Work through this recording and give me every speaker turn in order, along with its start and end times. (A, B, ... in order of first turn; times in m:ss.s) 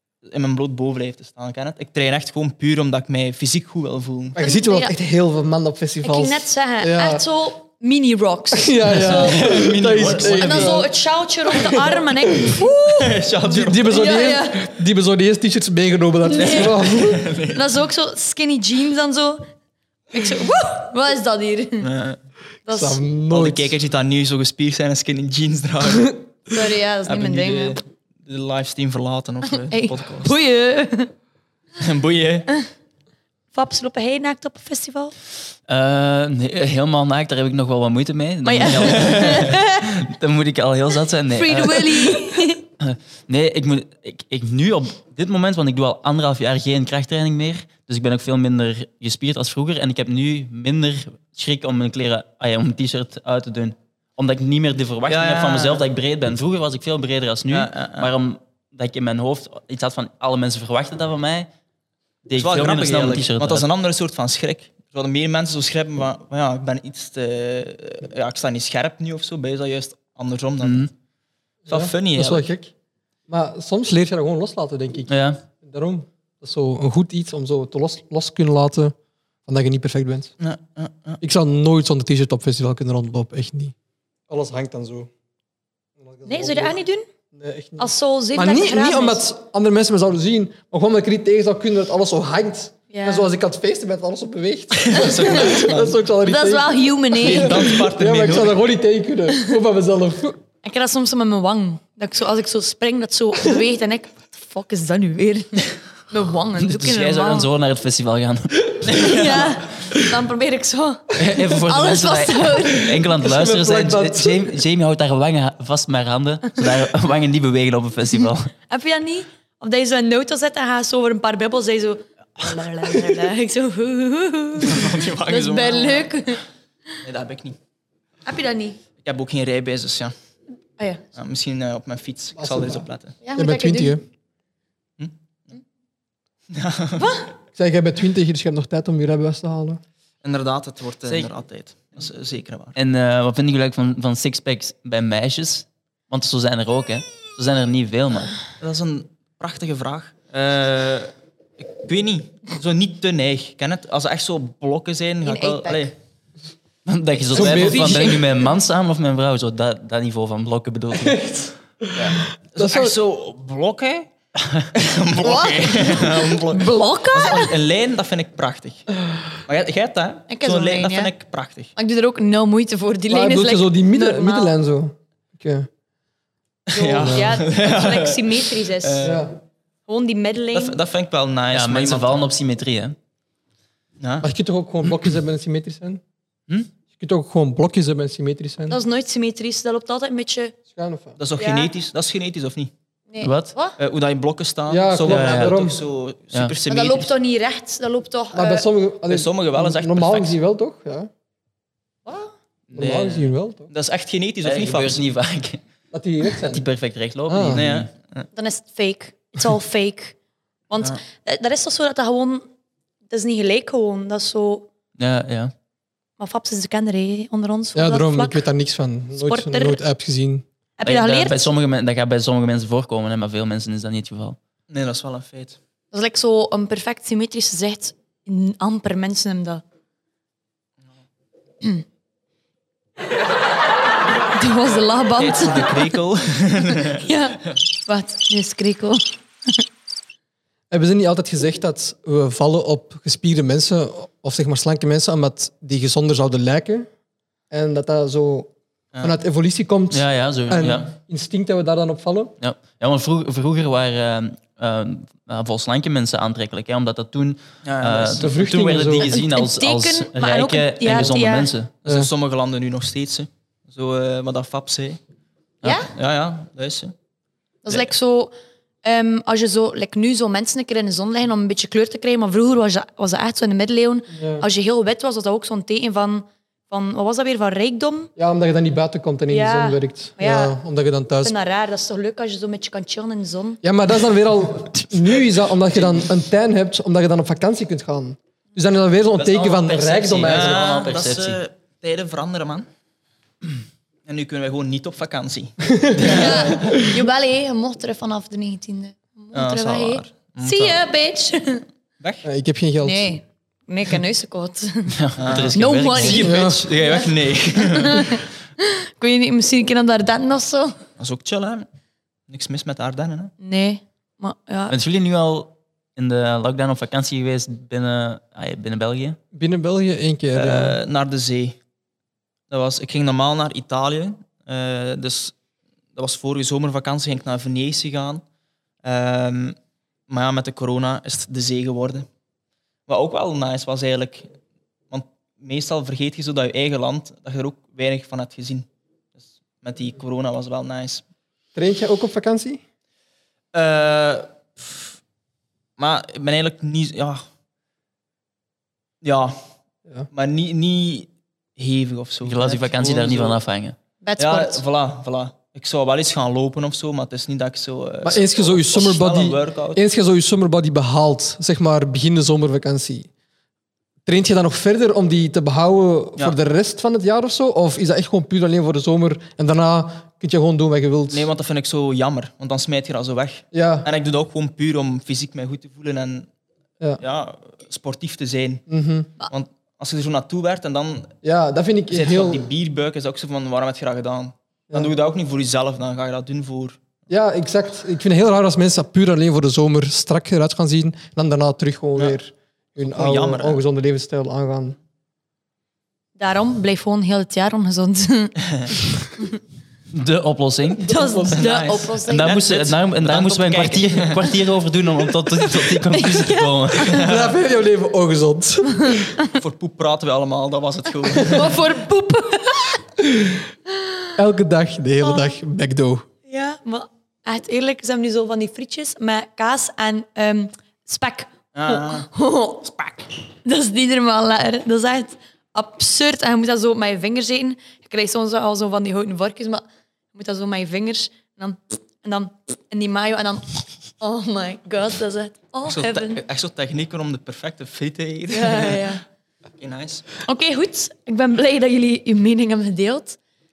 0:00.3-0:04.4 A
0:04.4-0:07.2 B
0:04.4-0:04.9 C
0:06.0-0:09.4 C
0:08.5-0:10.9 B
0:08.9-0:10.8 A
0:10.2-0:13.0 C
0:11.6-0:12.7 B
0:12.8-0:13.9 A
0:13.5-0:17.2 B
0:13.9-0:14.7 C
0:16.3-0:16.8 C
0:16.4-0:17.8 A
0:17.5-0:19.5 C
0:20.1-0:21.9 C
0:21.8-0:22.2 A
0:22.6-0:23.0 C
0:22.7-0:23.8 B
0:23.3-0:26.2 A
0:26.5-0:27.8 C
0:27.0-0:30.3 A
0:29.5-0:31.1 C
0:31.8-0:32.5 A
0:33.5-0:35.1 C
0:35.7-0:42.2 D
0:38.4-0:39.8 C
0:41.3-0:42.6 C
0:42.8-1:01.5 D
0:55.1-0:55.9 A
0:57.5-0:58.1 A
1:02.3-1:03.6 D
1:02.4-1:10.9 A
1:10.6-1:10.9 D
1:11.7-1:12.7 B
1:11.7-1:12.4 A
1:13.3-1:18.9 B
1:15.1-1:15.4 D
1:19.5-1:20.3 B
1:20.4-1:21.2 A
1:21.2-1:23.8 B
1:24.3-1:25.1 B
1:26.0-1:26.8 B
1:26.2-1:27.0 C
1:27.3-1:40.4 B
1:27.8-1:29.2 C
1:32.9-1:33.3 C
1:34.7-1:36.0 A
1:35.2-1:35.5 C
1:36.2-1:37.6 C
1:37.2-1:38.6 A
1:40.6-1:47.5 C
1:46.6-1:49.0 D
1:48.9-1:53.0 C
1:49.0-1:49.5 A
1:51.2-1:58.5 D
1:52.9-1:54.6 B
1:58.7-2:06.4 C
2:04.6-2:06.1 A
2:07.0-2:07.6 A
2:08.2-2:08.8 C
2:09.0-2:10.1 A
2:10.8-2:11.0 C
2:11.1-2:13.2 A
2:12.4-2:14.0 B
2:13.2-2:14.0 C
2:15.0-2:15.6 A
2:16.5-2:17.1 A
2:17.0-2:17.3 C
2:17.5-2:19.8 B
2:20.2-2:22.8 A
2:21.0-2:21.3 D
2:22.8-2:28.4 D
2:28.6-2:35.9 A
2:35.2-2:35.9 C
2:36.9-2:41.2 D
2:37.3-2:38.3 B
2:37.3-2:38.0 A
2:37.7-2:38.2 C
2:41.0-2:43.0 B
2:42.0-2:44.1 A
2:44.7-2:48.9 A
2:45.2-2:47.6 C
2:49.4-2:51.7 A
2:50.3-2:51.1 C
2:51.8-2:54.5 C
2:53.1-2:55.7 B
2:56.7-2:59.3 A
2:56.7-2:59.1 C
2:57.0-2:57.4 B
2:59.0-2:59.4 B
2:59.9-3:00.8 C
3:00.5-3:02.3 A
3:01.5-3:03.0 D
3:04.0-3:04.2 A
3:04.2-3:06.0 B
3:06.9-3:08.8 B
3:08.7-3:10.5 C
3:10.7-3:11.2 B
3:11.2-3:12.7 A
3:11.4-3:11.7 C
3:13.1-3:13.8 C
3:13.2-3:13.5 D
3:13.8-3:17.1 A
3:14.7-3:15.8 B
3:15.0-3:15.6 D
3:16.7-3:18.6 C
3:18.3-3:21.1 B
3:19.1-3:20.4 A
3:22.0-3:22.3 C
3:22.7-3:23.2 D
3:22.7-3:23.7 B
3:22.8-3:23.2 A
3:23.7-3:25.0 A
3:24.4-3:25.6 D
3:25.9-3:26.7 B
3:26.4-3:27.9 D
3:27.3-3:27.6 B
3:27.5-3:28.2 A
3:28.3-3:30.2 C
3:30.7-3:32.5 C
3:33.1-3:34.7 C
3:35.0-3:35.5 D
3:36.2-3:38.5 C
3:37.8-3:40.4 B
3:39.1-3:39.8 C
3:40.8-3:41.5 C
3:40.8-3:44.4 D
3:44.7-3:45.6 A
3:45.9-3:49.6 C
3:54.3-3:55.9 C
3:55.2-3:57.0 A
3:56.9-3:59.0 C
4:00.7-4:06.9 B
4:07.5-4:12.4 B
4:09.9-4:10.9 D
4:12.4-4:21.7 D
4:17.6-4:18.3 A
4:18.2-4:19.2 B
4:19.0-4:21.5 C
4:21.8-4:25.0 A
4:25.6-4:25.9 C
4:25.9-4:26.9 A
4:27.6-4:28.3 C
4:28.8-4:38.1 C
4:34.1-4:34.4 B
4:38.2-4:41.4 B
4:39.3-4:40.5 C
4:41.2-4:43.6 C
4:43.6-4:50.8 B
4:45.7-4:46.0 A
4:49.2-4:51.4 D
4:50.2-4:52.6 A
4:54.0-4:56.5 A
4:55.7-4:56.8 B
4:56.1-5:01.6 C
4:59.3-5:00.8 A
5:02.0-5:02.2 A
5:02.2-5:03.1 B
5:02.8-5:05.0 C
5:04.9-5:06.4 D
5:05.2-5:08.2 A
5:05.5-5:10.7 C
5:06.2-5:06.6 B
5:11.0-5:11.7 A
5:12.3-5:13.3 A
5:13.4-5:14.8 C
5:14.7-5:19.2 D
5:19.3-5:20.8 B
5:20.4-5:21.6 A
5:22.5-5:25.4 A
5:25.9-5:28.2 A
5:28.8-5:29.6 A
5:30.1-5:32.1 A
5:32.9-5:34.3 A
5:34.9-5:38.7 A
5:39.2-5:41.0 A
5:41.5-5:42.6 B
5:43.5-5:44.8 A
5:45.8-5:47.2 A
5:49.0-5:49.4 A
5:50.1-5:53.4 A
5:52.2-5:53.8 D
5:54.0-5:54.6 C
5:54.2-5:59.8 A
5:58.0-6:03.1 B
6:04.0-6:11.3 B
6:11.1-6:16.3 A
6:13.5-6:13.9 B
6:17.0-6:18.6 A
6:18.7-6:19.1 B
6:19.3-6:21.1 A
6:21.2-6:22.5 B
6:21.9-6:26.8 A
6:27.1-6:34.8 B
6:32.9-6:33.6 A
6:36.2-6:39.4 C
6:39.9-6:40.8 D
6:40.8-6:41.5 B
6:40.9-6:42.4 C
6:41.3-6:44.4 A
6:42.0-6:46.9 D
6:45.6-6:47.0 C
6:46.8-6:47.3 A
6:47.0-6:49.0 B
6:48.8-6:49.4 C
6:49.4-6:51.6 A
6:51.2-6:52.8 C
6:54.2-6:56.1 B
6:55.0-6:55.4 C
6:56.3-7:16.2 C
7:01.5-7:02.1 A
7:15.6-7:18.9 A
7:18.3-7:19.0 C
7:19.6-7:20.1 A
7:20.2-7:23.2 C